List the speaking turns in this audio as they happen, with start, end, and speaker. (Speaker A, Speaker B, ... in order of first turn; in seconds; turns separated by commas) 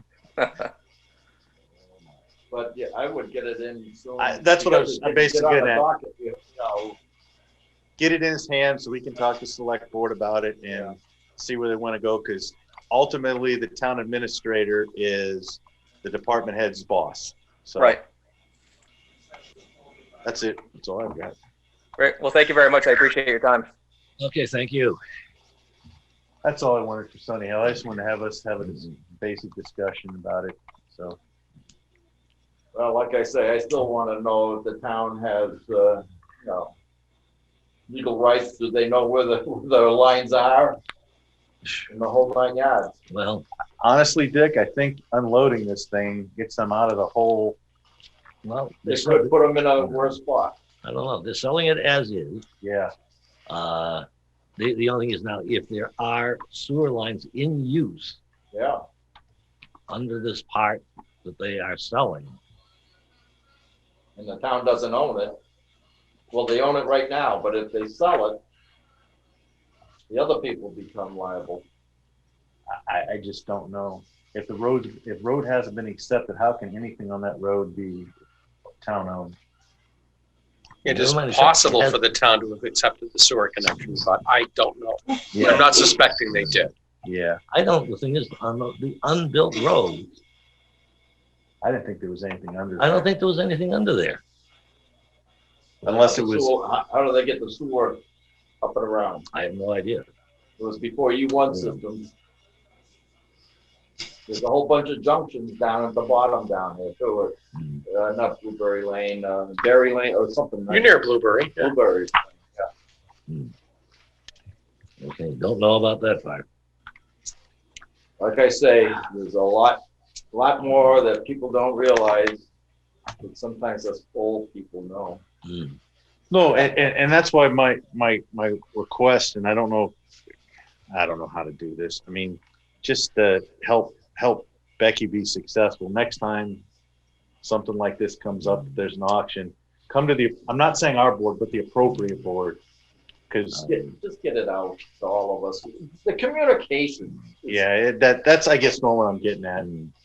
Speaker A: 0.4-0.7, Speaker B: 2.5-7.0, Speaker C: 4.2-5.8, Speaker C: 8.0-18.0, Speaker B: 10.7-10.9, Speaker C: 20.2-21.3, Speaker A: 22.0-23.7, Speaker D: 24.2-25.0, Speaker C: 26.4-31.2, Speaker B: 32.7-36.7, Speaker B: 37.9-40.8, Speaker B: 41.9-42.9, Speaker D: 43.1-43.5, Speaker C: 43.8-47.6, Speaker D: 48.4-50.1, Speaker B: 48.8-50.5, Speaker D: 50.8-52.4, Speaker C: 52.6-52.9, Speaker D: 53.5-54.0, Speaker D: 54.6-58.2, Speaker B: 58.5-58.8, Speaker D: 59.9-62.4, Speaker B: 64.2-65.4, Speaker B: 66.3-68.4, Speaker B: 70.1-71.6, Speaker C: 72.8-78.1, Speaker C: 78.8-79.4, Speaker D: 80.8-82.0, Speaker E: 80.8-86.7, Speaker C: 85.3-85.7, Speaker D: 86.3-86.6, Speaker C: 87.0-87.4, Speaker D: 87.5-90.2, Speaker C: 91.6-93.1, Speaker D: 92.8-94.2, Speaker C: 95.8-96.5, Speaker B: 95.8-98.0, Speaker B: 98.6-99.2, Speaker D: 99.3-100.0, Speaker B: 100.6-102.1, Speaker D: 101.5-101.8, Speaker B: 104.3-107.3, Speaker D: 107.5-107.8, Speaker B: 107.8-111.0, Speaker E: 110.7-111.7, Speaker B: 111.5-112.6, Speaker D: 113.3-113.5, Speaker D: 115.0-116.4, Speaker B: 118.2-119.8, Speaker B: 120.3-122.5, Speaker B: 123.2-125.2, Speaker D: 125.4-125.8, Speaker C: 126.3-129.9, Speaker C: 130.9-136.6, Speaker C: 137.4-142.6, Speaker C: 143.3-143.8, Speaker D: 143.5-143.9, Speaker B: 143.6-147.6, Speaker C: 147.5-149.7, Speaker D: 149.6-149.9